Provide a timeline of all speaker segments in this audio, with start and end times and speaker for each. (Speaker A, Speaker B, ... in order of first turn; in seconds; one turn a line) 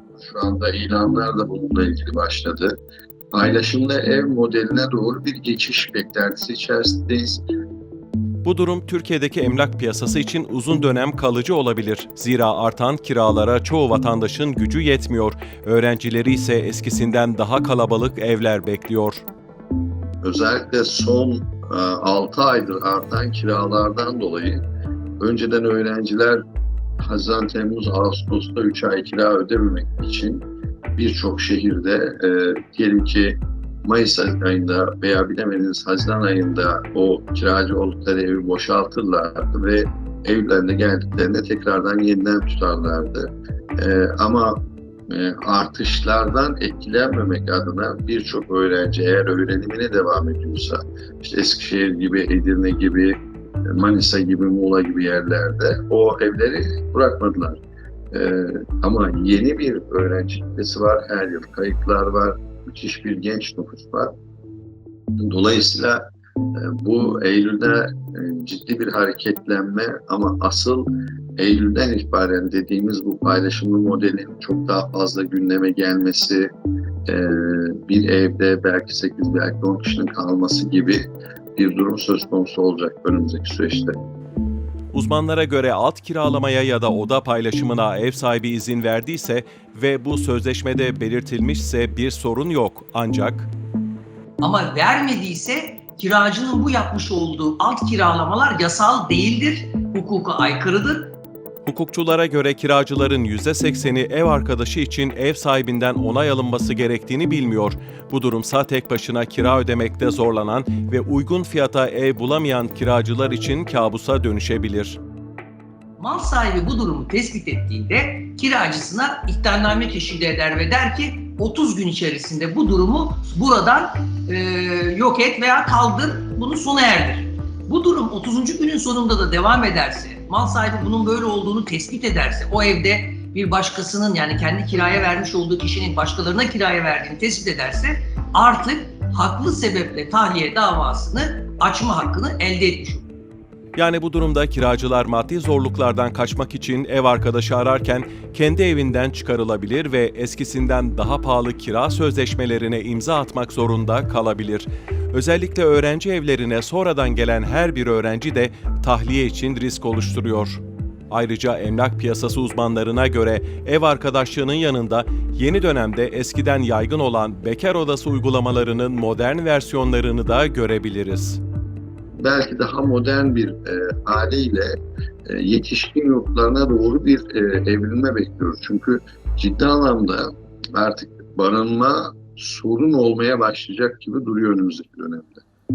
Speaker A: 0.2-2.7
Speaker A: 3.3-7.4
Speaker B: 8.4-19.2
Speaker A: 20.2-24.6
Speaker A: 25.2-26.4
Speaker A: 27.0-30.4
Speaker A: 30.9-64.1
Speaker A: 65.2-66.0
Speaker A: 66.5-76.5
Speaker A: 77.0-84.0
Speaker B: 84.9-93.5
Speaker C: 94.4-101.1
Speaker B: 101.6-115.0
Speaker C: 116.0-143.1
Speaker B: 143.8-171.4
Speaker A: 172.2-174.7
Speaker A: 175.2-185.4